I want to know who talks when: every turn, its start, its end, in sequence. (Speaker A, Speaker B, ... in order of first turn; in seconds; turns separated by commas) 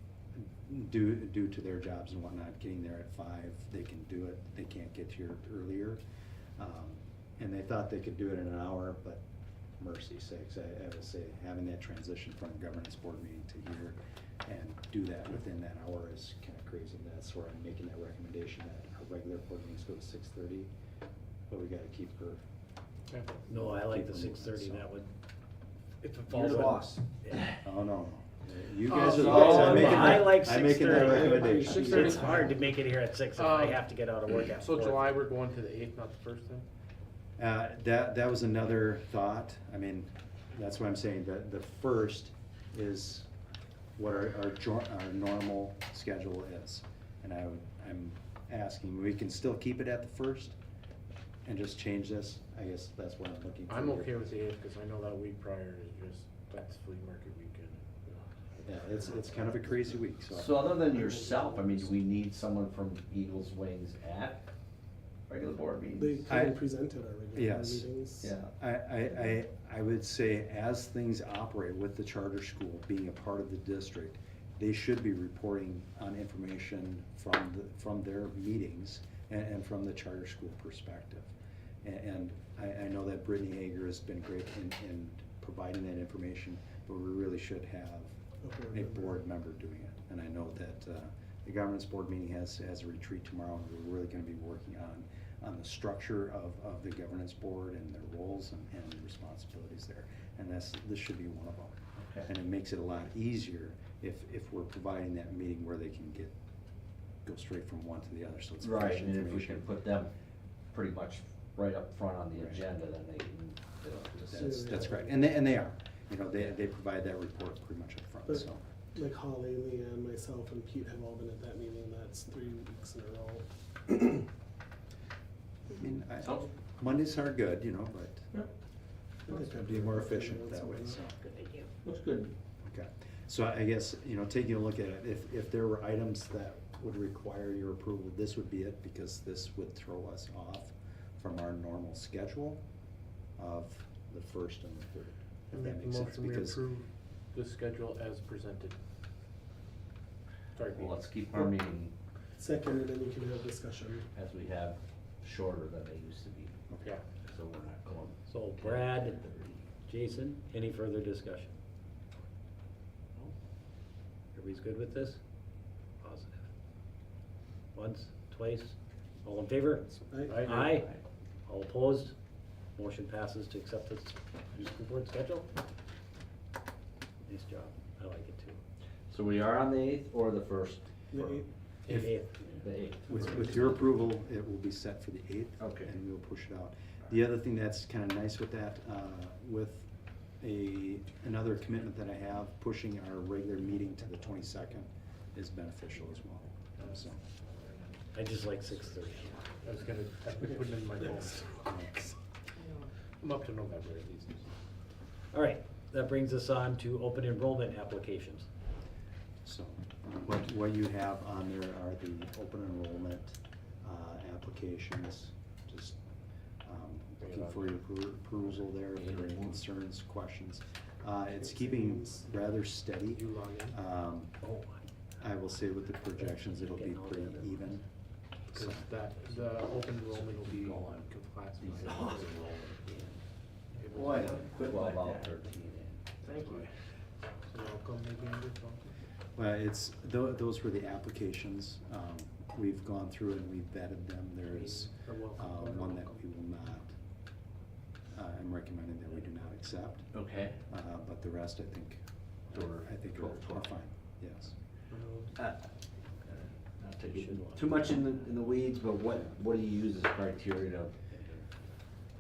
Speaker A: 0.3-6.0, Speaker A: 6.6-9.2, Speaker A: 9.8-20.7, Speaker A: 21.5-22.4, Speaker B: 23.1-23.3, Speaker C: 23.5-25.1, Speaker A: 23.5-24.9, Speaker C: 26.0-26.9, Speaker D: 26.3-27.3, Speaker A: 27.6-32.4, Speaker B: 28.9-30.0, Speaker D: 28.9-30.3, Speaker C: 29.2-35.1, Speaker E: 30.8-32.6, Speaker B: 31.4-32.5, Speaker B: 33.4-33.9, Speaker B: 34.5-36.7, Speaker A: 37.4-43.3, Speaker A: 44.0-50.5, Speaker A: 51.4-54.2, Speaker B: 53.7-59.7, Speaker A: 58.6-60.7, Speaker D: 60.3-64.4, Speaker E: 61.0-61.6, Speaker D: 65.3-66.2, Speaker E: 66.0-68.3, Speaker A: 66.3-66.6, Speaker A: 67.3-67.9, Speaker D: 68.2-68.5, Speaker A: 68.5-81.3, Speaker A: 81.8-88.2, Speaker E: 88.4-89.1, Speaker A: 88.7-106.3, Speaker D: 102.0-102.3, Speaker A: 107.2-109.7, Speaker D: 108.6-110.1, Speaker D: 110.7-114.5, Speaker A: 114.3-118.6, Speaker E: 114.3-115.2, Speaker E: 118.2-124.2, Speaker A: 125.7-128.3, Speaker D: 126.2-126.5, Speaker E: 129.2-131.0, Speaker A: 129.3-131.3, Speaker D: 131.8-132.3, Speaker A: 132.6-142.6, Speaker A: 143.3-146.6, Speaker B: 145.5-148.8, Speaker B: 150.5-151.0, Speaker D: 150.7-151.9, Speaker E: 152.4-154.1, Speaker D: 154.1-156.6, Speaker D: 157.2-159.6, Speaker C: 158.3-159.2, Speaker C: 159.9-161.5, Speaker C: 164.3-165.2, Speaker C: 166.0-166.4, Speaker C: 167.7-170.9, Speaker E: 170.1-170.6, Speaker B: 170.3-170.6, Speaker C: 171.5-172.1, Speaker C: 172.8-175.5, Speaker C: 177.2-178.6, Speaker D: 179.1-180.8, Speaker E: 181.1-181.5, Speaker C: 181.9-182.4, Speaker D: 182.6-183.8, Speaker A: 183.1-197.2, Speaker D: 185.6-185.9, Speaker B: 196.8-198.7, Speaker C: 198.1-199.6, Speaker B: 199.4-201.6, Speaker E: 201.3-202.1, Speaker A: 201.6-202.0, Speaker B: 203.2-204.5, Speaker C: 205.3-208.5, Speaker A: 209.4-216.0, Speaker A: 216.6-224.4, Speaker B: 217.2-217.7, Speaker D: 218.9-219.6, Speaker E: 221.4-222.2, Speaker B: 223.1-223.8, Speaker C: 224.4-224.8, Speaker A: 225.2-227.9, Speaker C: 226.1-227.8, Speaker A: 228.5-228.9, Speaker B: 228.5-233.0, Speaker D: 230.3-230.8, Speaker D: 231.6-232.9, Speaker B: 233.8-234.7, Speaker D: 234.0-236.0, Speaker B: 236.2-236.7, Speaker B: 237.5-238.9, Speaker A: 239.3-246.9, Speaker B: 244.6-246.1, Speaker A: 248.1-250.1, Speaker D: 250.1-250.6, Speaker A: 250.7-254.5, Speaker D: 252.5-253.7, Speaker D: 255.3-255.6, Speaker D: 256.8-260.9, Speaker C: 256.9-258.3, Speaker C: 261.1-261.4